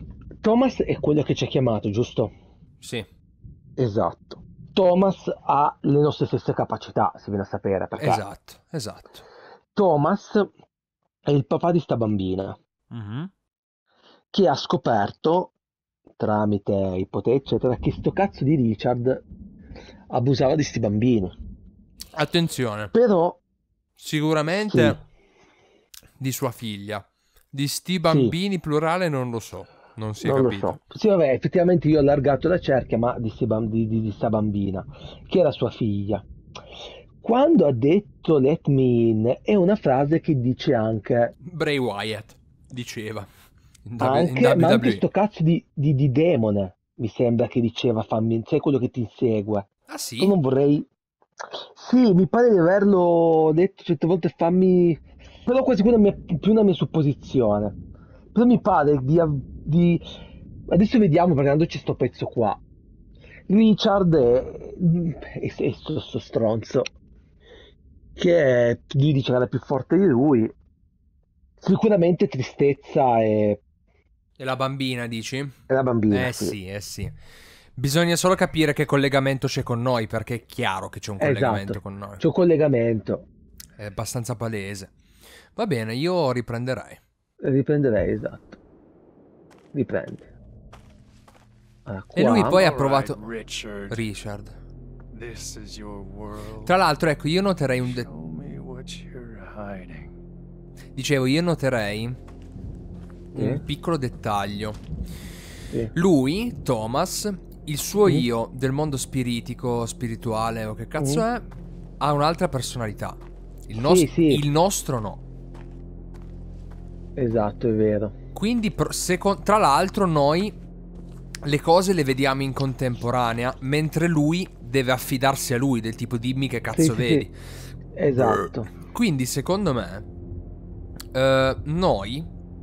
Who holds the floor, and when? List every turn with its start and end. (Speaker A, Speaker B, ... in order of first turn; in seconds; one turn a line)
Speaker A: 0.4-2.3
Speaker B: 2.8-3.1
Speaker A: 3.8-8.2
Speaker B: 8.0-9.2
Speaker A: 9.8-10.5
Speaker A: 11.3-12.6
Speaker B: 12.9-13.2
Speaker A: 14.3-15.5
Speaker A: 16.2-19.2
Speaker A: 20.1-21.4
Speaker B: 22.1-22.9
Speaker A: 22.9-23.4
Speaker B: 24.0-25.0
Speaker A: 24.7-25.0
Speaker B: 26.2-30.8
Speaker A: 28.1-28.4
Speaker A: 30.2-36.2
Speaker A: 37.2-41.3
Speaker B: 41.4-43.3
Speaker B: 43.9-45.0
Speaker A: 44.0-49.7
Speaker B: 49.9-50.4
Speaker A: 50.2-50.9
Speaker A: 51.8-57.8
Speaker A: 58.3-60.1
Speaker A: 60.7-62.6
Speaker A: 63.5-66.9
Speaker A: 68.2-70.5
Speaker A: 71.6-73.6
Speaker B: 74.4-75.6
Speaker A: 75.7-76.6
Speaker B: 76.1-77.2
Speaker B: 77.8-82.2
Speaker A: 81.2-83.3
Speaker B: 83.8-84.9
Speaker B: 85.5-87.0
Speaker A: 87.4-88.6
Speaker A: 89.7-90.3
Speaker A: 91.9-92.7
Speaker B: 92.2-93.2
Speaker C: 92.4-94.0
Speaker B: 93.9-94.6
Speaker C: 95.1-96.8
Speaker B: 96.6-98.1
Speaker C: 97.8-100.2
Speaker B: 101.0-102.2
Speaker A: 103.3-103.6
Speaker B: 103.3-104.8
Speaker B: 105.9-111.5
Speaker A: 111.0-111.2
Speaker B: 112.0-115.2
Speaker A: 113.8-114.5
Speaker A: 117.2-118.1
Speaker B: 118.3-120.6
Speaker B: 121.4-127.3
Speaker A: 126.7-127.3
Speaker A: 128.0-128.7
Speaker B: 128.1-130.1
Speaker B: 131.1-132.3